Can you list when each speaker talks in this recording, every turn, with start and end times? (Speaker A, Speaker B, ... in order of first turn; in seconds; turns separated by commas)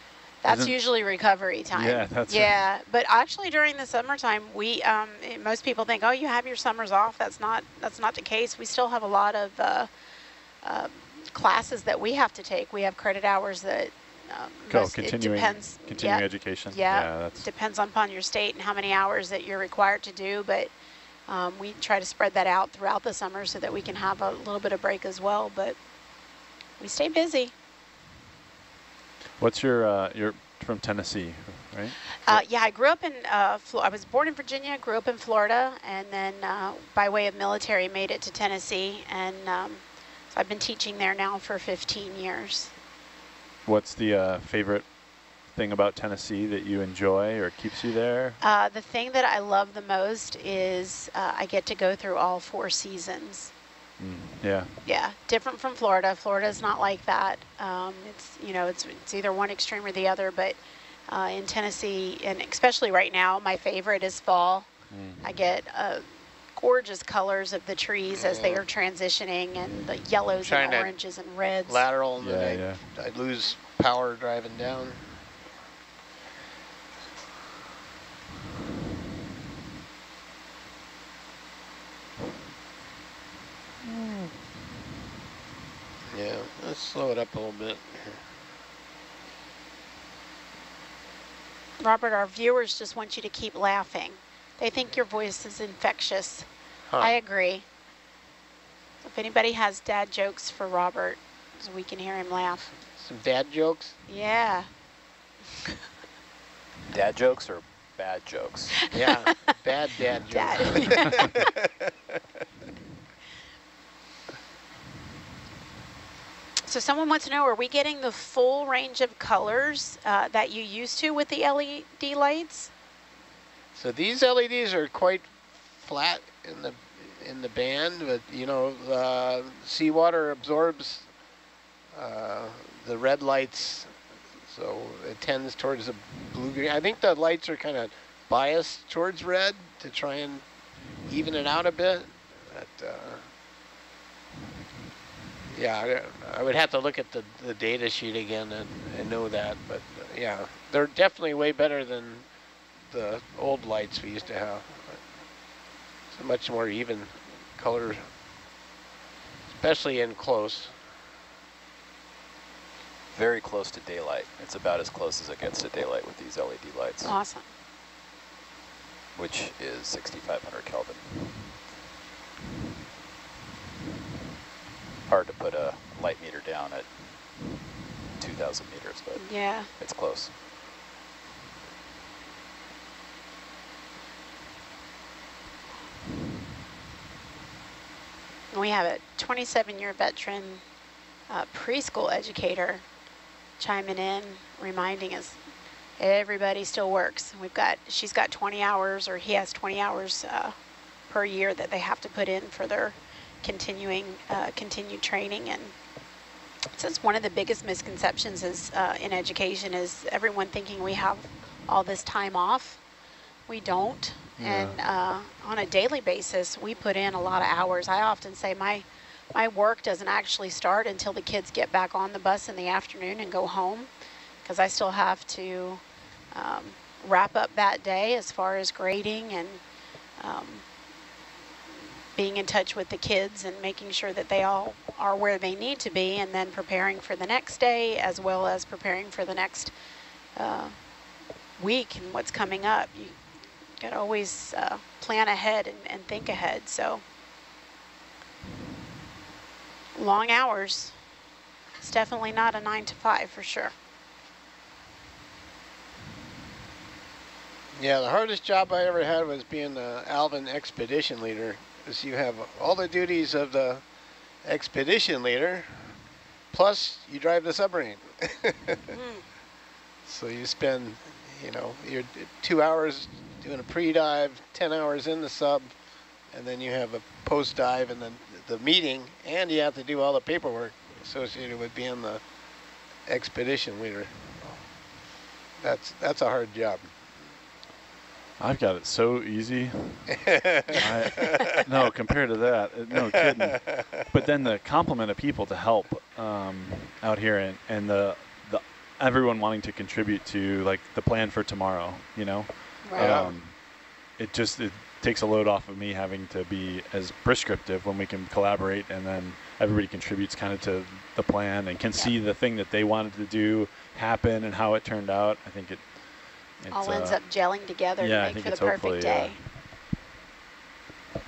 Speaker A: 0.4-9.9, Speaker B: 0.4-0.8, Speaker B: 1.7-2.6, Speaker A: 10.6-20.7, Speaker B: 14.7-17.4, Speaker A: 21.3-25.8, Speaker A: 26.8-27.5, Speaker B: 29.4-32.4, Speaker A: 32.2-42.7, Speaker B: 43.6-48.4, Speaker A: 48.4-53.5, Speaker B: 54.0-54.8, Speaker A: 54.8-64.7, Speaker B: 64.9-65.3, Speaker A: 65.2-71.9, Speaker C: 68.1-68.7, Speaker C: 70.4-70.9, Speaker C: 71.6-75.2, Speaker B: 72.2-72.8, Speaker B: 83.8-84.3, Speaker C: 86.1-88.2, Speaker A: 91.8-96.5, Speaker C: 96.9-97.2, Speaker A: 97.0-97.6, Speaker A: 99.0-102.6, Speaker C: 102.9-104.0, Speaker A: 104.1-104.7, Speaker D: 106.9-108.8, Speaker C: 108.9-111.3, Speaker A: 108.9-109.5, Speaker A: 110.3-111.2, Speaker A: 116.6-122.7, Speaker C: 123.7-131.1, Speaker C: 131.9-140.4, Speaker C: 141.1-143.3, Speaker C: 145.5-152.3, Speaker C: 152.9-155.1, Speaker C: 156.1-158.1, Speaker C: 159.5-160.8, Speaker D: 163.1-167.2, Speaker A: 167.0-167.5, Speaker D: 169.1-171.4, Speaker D: 175.1-177.0, Speaker D: 178.2-180.3, Speaker A: 179.2-179.7, Speaker A: 188.5-190.6, Speaker A: 191.3-192.8, Speaker A: 193.6-195.4, Speaker A: 196.0-200.6, Speaker A: 201.1-205.7, Speaker A: 206.7-212.8, Speaker A: 213.5-223.9, Speaker B: 214.4-214.8, Speaker A: 224.4-229.6, Speaker A: 230.2-230.6, Speaker A: 232.1-239.7, Speaker A: 240.3-240.8, Speaker A: 241.6-243.2, Speaker A: 243.8-247.0, Speaker A: 249.9-250.9, Speaker A: 251.8-253.7, Speaker C: 257.7-263.8, Speaker C: 264.4-265.9, Speaker C: 266.5-268.8, Speaker A: 268.9-269.2, Speaker C: 270.0-275.7, Speaker C: 276.3-282.2, Speaker C: 283.1-284.6, Speaker C: 285.6-287.1, Speaker B: 288.4-317.2, Speaker C: 290.1-291.4, Speaker C: 292.9-294.0, Speaker A: 302.8-303.3, Speaker C: 302.9-303.4, Speaker A: 316.7-319.4, Speaker B: 318.0-319.4